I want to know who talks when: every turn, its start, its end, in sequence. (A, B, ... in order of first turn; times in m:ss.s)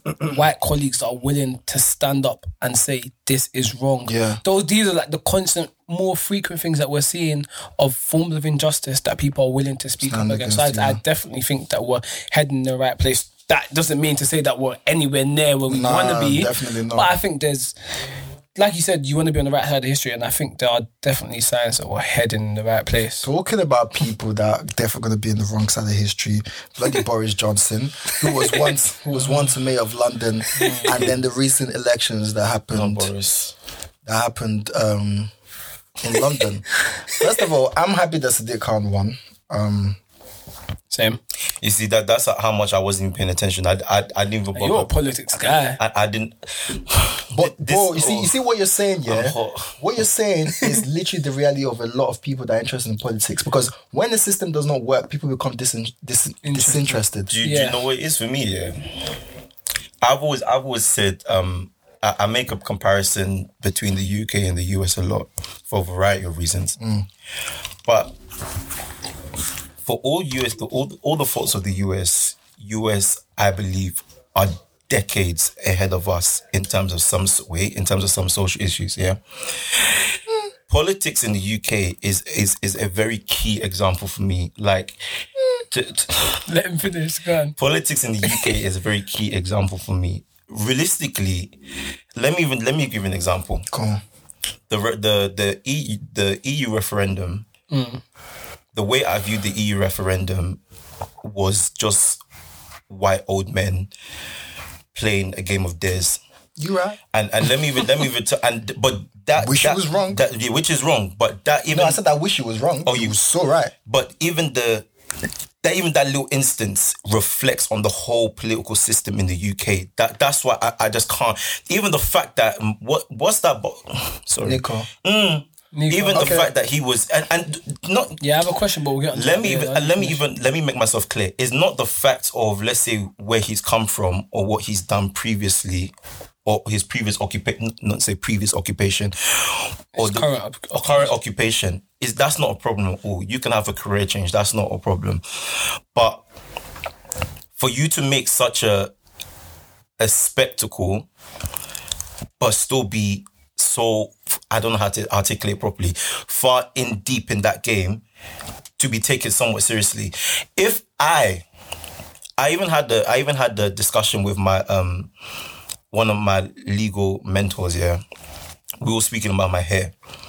0:00.2-0:17.8 A
0:04.1-0:04.4 B
0:10.0-0:11.0 B
0:15.7-0:17.1 B
0:18.6-0:23.3 A
0:23.2-0:33.1 B
0:28.3-0:29.5 A
0:30.6-0:31.1 A
0:32.7-0:33.5 C
0:34.0-0:35.3 B
0:36.0-0:40.0 B
0:40.9-0:41.2 A
0:41.6-0:44.9 C
0:44.6-0:45.8 A
0:45.8-0:48.3 C
0:47.3-0:57.3 B
0:49.1-0:49.8 C
0:56.4-0:57.8 A
0:57.3-0:58.9 C
1:00.0-1:06.8 C
1:06.8-1:07.1 B
1:07.8-1:08.2 C
1:09.8-1:19.2 C
1:20.7-1:25.0 C
1:25.7-1:26.4 C
1:26.5-1:27.6 A
1:27.6-1:31.6 C
1:32.2-1:33.7 C
1:33.7-1:34.0 B
1:34.7-1:37.5 C
1:37.7-1:38.0 A
1:38.7-1:40.6 C
1:41.2-1:42.2 C
1:42.9-1:43.9 C
1:44.9-1:46.2 C
1:46.6-1:47.0 B
1:47.1-1:52.0 C
1:49.4-1:50.2 B
1:51.7-1:53.7 B
1:52.8-1:53.2 C
1:53.9-1:54.9 C
1:55.6-2:08.2 C
2:04.4-2:04.9 B
2:05.7-2:06.4 A
2:06.2-2:06.5 B
2:08.2-2:10.2 A
2:09.1-2:15.9 C
2:16.4-2:25.2 C
2:20.0-2:21.1 A
2:25.9-2:26.2 C
2:27.6-2:28.9 C
2:30.0-2:31.1 C
2:32.4-2:38.0 C
2:38.8-2:41.4 C
2:42.4-2:45.1 C
2:45.9-2:48.0 C
2:48.8-2:49.9 C